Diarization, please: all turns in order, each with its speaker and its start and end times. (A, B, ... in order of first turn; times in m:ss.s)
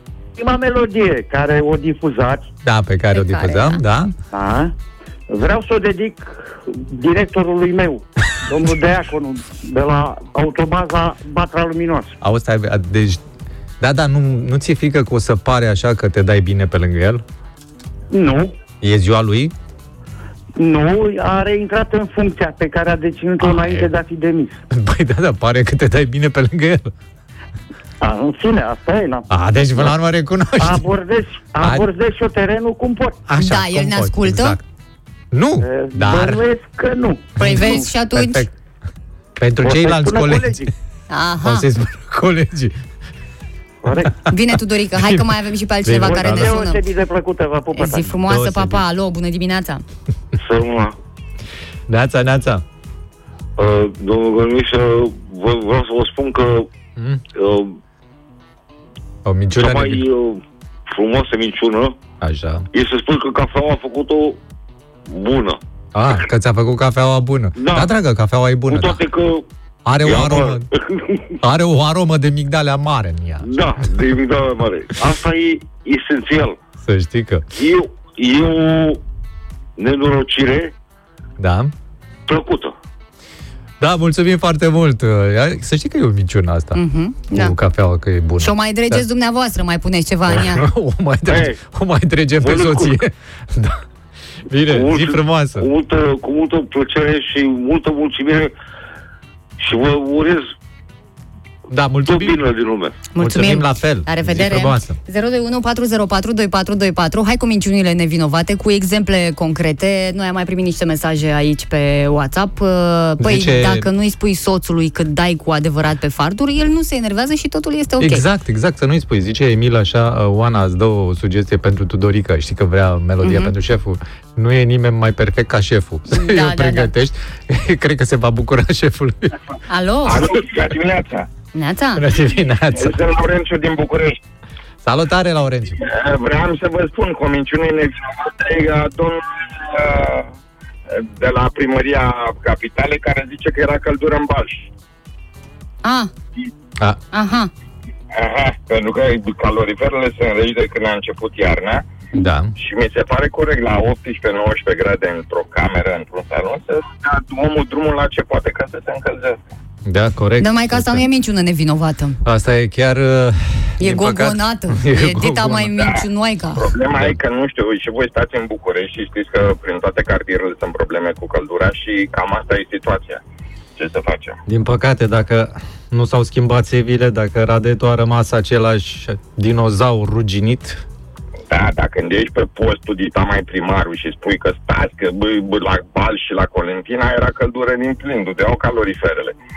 0:00.4-0:02.4 A
0:02.6-0:04.1 B
0:03.1-0:03.8 C
0:04.3-0:04.7 A
0:05.3-0:12.1 A
0:12.2-0:13.2 B
0:13.8-0:17.2 B
0:18.1-0:18.5 A
0:18.8-0:19.5 B
0:20.6-0:24.6 A
0:23.4-0:23.9 B
0:24.7-0:26.9 B
0:28.0-0:29.9 A
0:29.3-0:30.8 B
0:30.6-0:33.2 A
0:31.6-0:31.9 B
0:33.3-0:34.6 B
0:33.4-0:34.6 C
0:35.3-0:36.4 B
0:35.6-0:37.9 A
0:37.4-0:38.5 B
0:37.4-0:38.5 C
0:39.4-0:40.7 B
0:39.6-0:40.7 A
0:41.1-0:41.7 C
0:41.4-0:42.8 B
0:43.8-0:44.2 A
0:44.3-0:46.8 C
0:44.9-0:45.3 B
0:45.8-0:46.6 B
0:46.0-0:48.1 A
0:47.7-0:49.8 C
0:48.2-0:48.8 B
0:50.3-0:51.0 D
0:51.9-0:52.6 B
0:53.6-0:56.7 D
0:57.0-0:57.2 B
0:57.3-0:57.8 D
0:59.2-1:00.0 B
0:59.6-1:02.0 D
1:02.2-1:02.7 B
1:02.7-1:04.4 D
1:05.1-1:05.6 D
1:05.9-1:09.0 B
1:07.6-1:07.9 D
1:08.7-1:09.4 D
1:09.8-1:10.7 B
1:10.0-1:11.2 D
1:11.4-1:13.5 B
1:13.4-1:16.6 D
1:16.8-1:17.4 B
1:17.5-1:19.0 D
1:19.8-1:20.7 D
1:21.4-1:21.7 B
1:22.3-1:22.7 D
1:23.8-1:26.8 B
1:26.7-1:27.5 C
1:27.3-1:29.0 B
1:28.4-1:30.6 C
1:30.3-1:33.8 B
1:31.3-1:31.6 D
1:32.4-1:33.0 D
1:34.5-1:35.7 B
1:34.6-1:38.5 D
1:39.6-1:40.5 D
1:41.7-1:42.4 B
1:42.0-1:43.0 D
1:43.1-1:58.2 C
1:43.2-1:45.0 B
1:53.2-1:53.9 B
1:58.0-2:09.4 B
2:03.2-2:03.5 C
2:06.1-2:06.9 C
2:09.7-2:10.3 C
2:10.0-2:11.3 E
2:11.5-2:12.1 C
2:12.0-2:13.0 B
2:12.8-2:14.2 E
2:14.8-2:15.8 B
2:15.8-2:20.3 E
2:20.9-2:24.7 E
2:25.8-2:26.1 C
2:27.1-2:27.5 C
2:28.1-2:31.8 E
2:32.1-2:32.5 B
2:32.6-2:39.4 E
2:39.8-2:41.0 B
2:40.4-2:42.2 C
2:42.2-2:45.9 B
2:43.8-2:46.7 C
2:46.6-2:53.2 E
2:46.9-2:47.2 B
2:53.8-2:54.4 E
2:54.4-3:00.8 B
3:01.5-3:09.4 E